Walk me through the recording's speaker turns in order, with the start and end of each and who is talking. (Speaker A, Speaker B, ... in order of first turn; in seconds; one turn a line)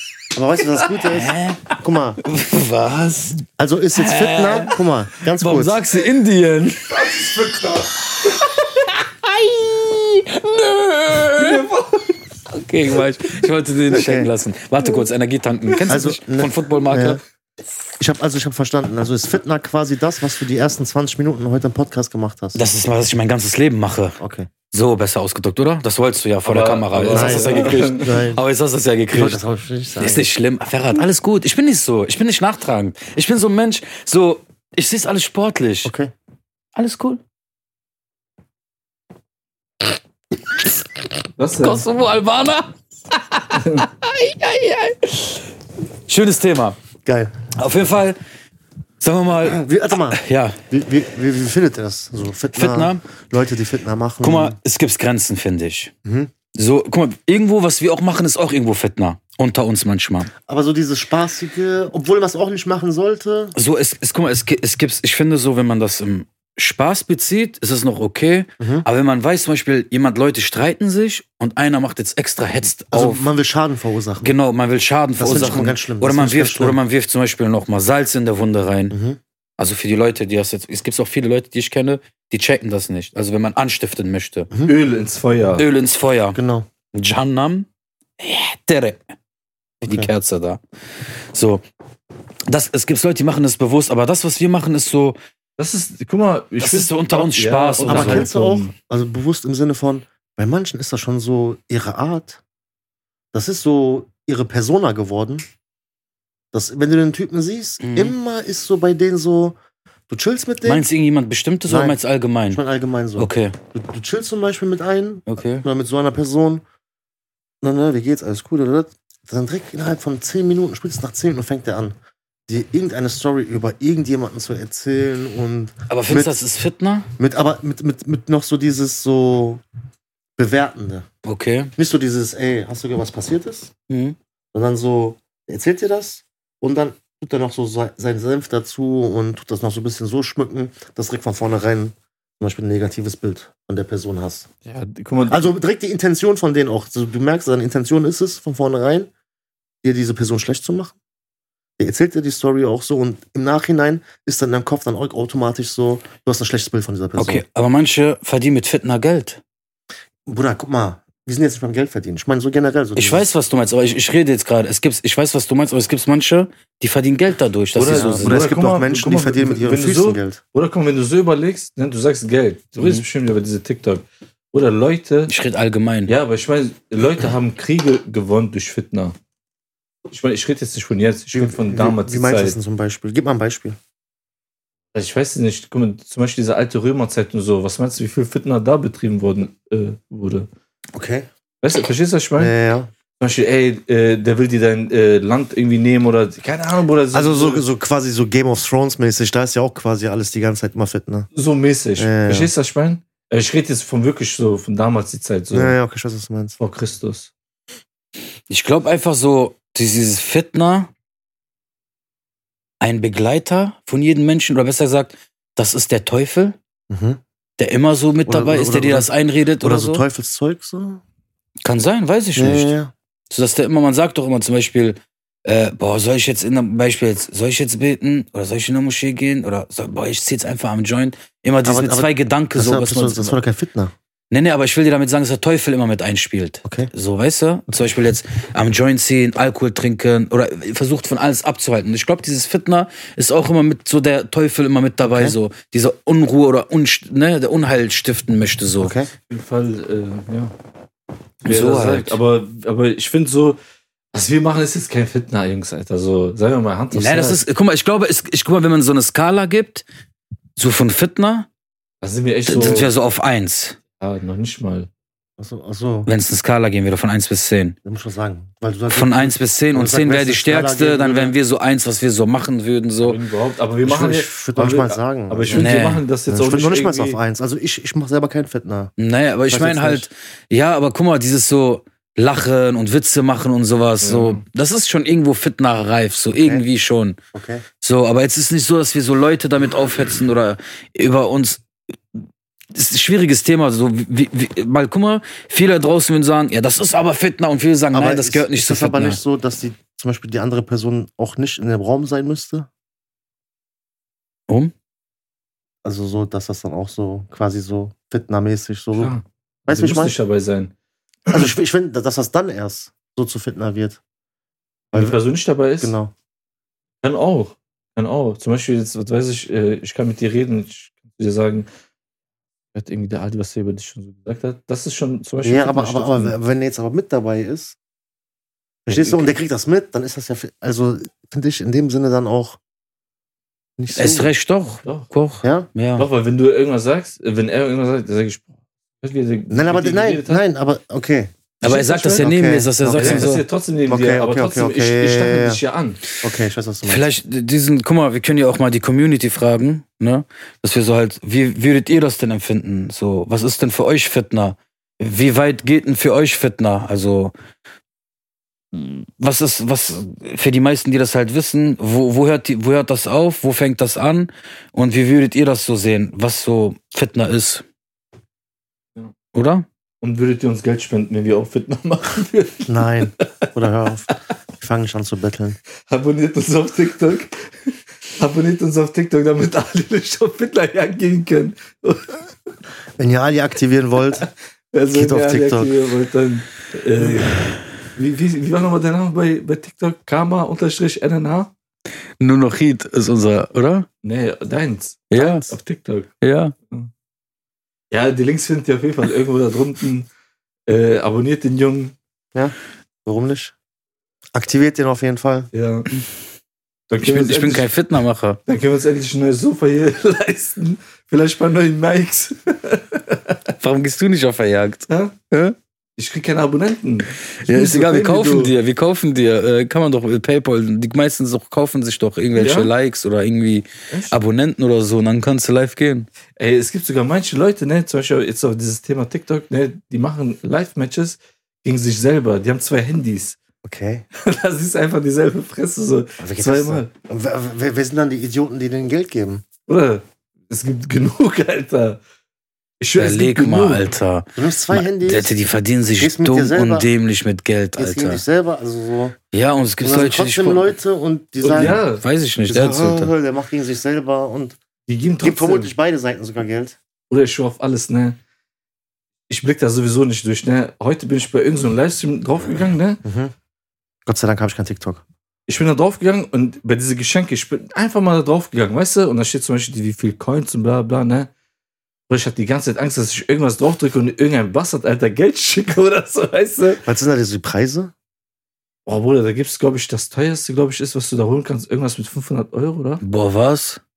Speaker A: 0.3-2.2
Speaker B: 1.0-11.7
Speaker A: 3.6-5.8
Speaker C: 11.3-12.2
Speaker B: 12.5-17.2
Speaker A: 13.9-14.3
Speaker A: 15.9-17.2
Speaker A: 18.0-22.6
Speaker B: 22.5-24.2
Speaker A: 24.2-24.5
Speaker B: 24.7-29.4
Speaker C: 26.4-28.1
Speaker A: 27.1-28.4
Speaker A: 29.1-30.2
Speaker B: 30.0-35.9
Speaker A: 35.8-36.1
Speaker B: 36.7-37.2
Speaker C: 41.4-41.8
Speaker B: 41.6-45.5
Speaker C: 43.5-43.9
Speaker B: 46.1-46.8
Speaker A: 47.0-47.3
Speaker B: 47.5-48.2
Speaker B: 49.0-50.6
Speaker A: 49.4-54.6
Speaker B: 52.5-53.0
Speaker B: 54.2-55.9
Speaker A: 56.0-56.3
Speaker B: 56.5-60.3
Speaker A: 60.4-63.5
Speaker B: 63.5-73.2
Speaker A: 68.6-68.9
Speaker A: 72.9-74.3
Speaker B: 74.2-79.0
Speaker A: 75.2-76.8
Speaker A: 78.9-79.2
Speaker B: 79.6-84.5
Speaker C: 84.6-85.7
Speaker B: 85.6-86.4
Speaker A: 86.3-86.7
Speaker B: 86.9-87.7
Speaker B: 88.2-89.0
Speaker A: 89.8-90.1
Speaker B: 89.8-91.6
Speaker B: 92.5-95.2
Speaker C: 95.6-98.7
Speaker B: 96.6-98.3
Speaker A: 97.8-102.4
Speaker A: 103.3-105.5
Speaker A: 106.5-109.5
Speaker B: 107.8-108.2
Speaker A: 110.1-110.8
Speaker B: 110.6-112.6
Speaker A: 111.7-112.0
Speaker A: 112.5-116.6
Speaker B: 113.2-113.5
Speaker B: 115.3-115.6
Speaker A: 117.6-122.0
Speaker A: 122.5-126.3
Speaker B: 125.9-127.1
Speaker A: 127.2-129.6
Speaker A: 130.4-131.1
Speaker B: 131.2-131.7
Speaker A: 131.8-133.7
Speaker B: 133.9-134.2
Speaker A: 134.5-144.5
Speaker C: 144.7-145.5
Speaker A: 145.3-149.1
Speaker A: 149.8-150.9
Speaker A: 151.8-157.4
Speaker B: 157.2-159.4
Speaker A: 160.2-163.2
Speaker B: 162.9-168.3
Speaker C: 167.7-175.3
Speaker A: 167.9-170.4
Speaker B: 175.3-176.1
Speaker C: 176.1-179.2
Speaker C: 180.1-182.6
Speaker A: 181.3-183.8
Speaker C: 184.9-190.5
Speaker A: 190.9-191.3
Speaker C: 191.6-192.5
Speaker A: 192.4-192.9
Speaker C: 193.2-197.7
Speaker A: 197.1-201.3
Speaker C: 201.3-205.8
Speaker A: 202.0-202.5
Speaker A: 205.5-206.6
Speaker C: 206.6-207.3
Speaker B: 208.5-210.9
Speaker B: 212.8-216.6
Speaker A: 216.9-217.2
Speaker B: 217.6-220.0
Speaker A: 218.2-219.1
Speaker A: 219.6-221.0
Speaker B: 221.6-222.7
Speaker A: 222.3-222.9
Speaker B: 223.3-233.4
Speaker A: 231.6-233.9
Speaker B: 234.3-248.9
Speaker A: 236.6-236.9
Speaker A: 245.0-245.4
Speaker A: 248.8-249.1
Speaker C: 249.3-250.5
Speaker B: 251.4-252.2
Speaker C: 251.4-253.6
Speaker C: 254.1-257.4
Speaker B: 256.9-259.8
Speaker B: 260.6-261.5
Speaker C: 262.0-262.9
Speaker B: 262.5-263.8
Speaker C: 264.0-264.9
Speaker A: 265.4-266.1
Speaker B: 266.1-267.8
Speaker A: 267.8-271.3
Speaker B: 268.9-273.2
Speaker C: 273.0-277.2
Speaker A: 273.8-275.7
Speaker B: 275.5-276.0
Speaker A: 276.3-278.9
Speaker B: 279.0-287.2
Speaker A: 279.5-280.1
Speaker C: 284.0-284.4
Speaker A: 286.4-286.6
Speaker A: 287.3-287.6
Speaker B: 287.8-299.2
Speaker A: 297.9-302.7
Speaker A: 305.8-309.1
Speaker C: 308.9-310.7
Speaker A: 309.7-310.1
Speaker A: 311.3-314.0
Speaker A: 314.9-315.2
Speaker C: 314.9-315.9
Speaker A: 315.8-316.1
Speaker C: 317.0-321.7
Speaker C: 322.7-326.3
Speaker A: 325.4-327.8
Speaker A: 328.9-332.6
Speaker C: 328.9-329.3
Speaker A: 333.8-334.3
Speaker B: 333.9-336.1
Speaker A: 335.4-335.7
Speaker C: 335.9-338.5
Speaker C: 339.0-340.4
Speaker A: 339.5-345.6
Speaker B: 341.6-343.4
Speaker C: 341.6-342.2
Speaker C: 342.9-346.0
Speaker A: 346.2-347.1
Speaker B: 346.8-357.3
Speaker B: 358.7-367.6
Speaker B: 369.3-369.6
Speaker C: 370.0-373.5
Speaker A: 372.7-375.6
Speaker C: 375.9-382.2
Speaker A: 383.0-384.2
Speaker C: 384.2-391.5
Speaker A: 384.9-385.7
Speaker B: 392.2-393.9
Speaker C: 394.0-396.1
Speaker B: 395.1-395.5
Speaker B: 396.2-396.5
Speaker C: 397.9-400.1
Speaker C: 400.7-401.9
Speaker A: 402.3-403.5
Speaker A: 404.3-405.5
Speaker C: 405.5-405.9
Speaker C: 406.9-407.7
Speaker B: 407.0-408.4
Speaker C: 408.5-413.5
Speaker B: 413.6-415.6
Speaker C: 414.9-415.1
Speaker C: 416.0-418.5
Speaker B: 417.4-426.1
Speaker C: 422.4-422.7
Speaker C: 423.9-424.2
Speaker C: 426.4-433.4
Speaker A: 433.6-434.1
Speaker C: 434.1-436.9
Speaker A: 436.2-439.4
Speaker C: 439.7-442.0
Speaker C: 442.8-443.9
Speaker B: 442.9-448.2
Speaker A: 444.4-445.3
Speaker A: 446.0-446.9
Speaker A: 447.8-449.2
Speaker B: 449.3-450.7
Speaker A: 449.8-451.8
Speaker C: 451.4-452.0
Speaker B: 451.6-453.1
Speaker A: 452.5-454.6
Speaker C: 454.9-455.7
Speaker A: 455.2-456.8
Speaker C: 457.1-458.2
Speaker C: 459.3-463.0
Speaker A: 463.0-463.3
Speaker A: 464.1-465.0
Speaker C: 465.5-471.3
Speaker C: 472.1-476.8
Speaker A: 476.8-477.9
Speaker C: 478.9-483.0
Speaker B: 483.0-483.8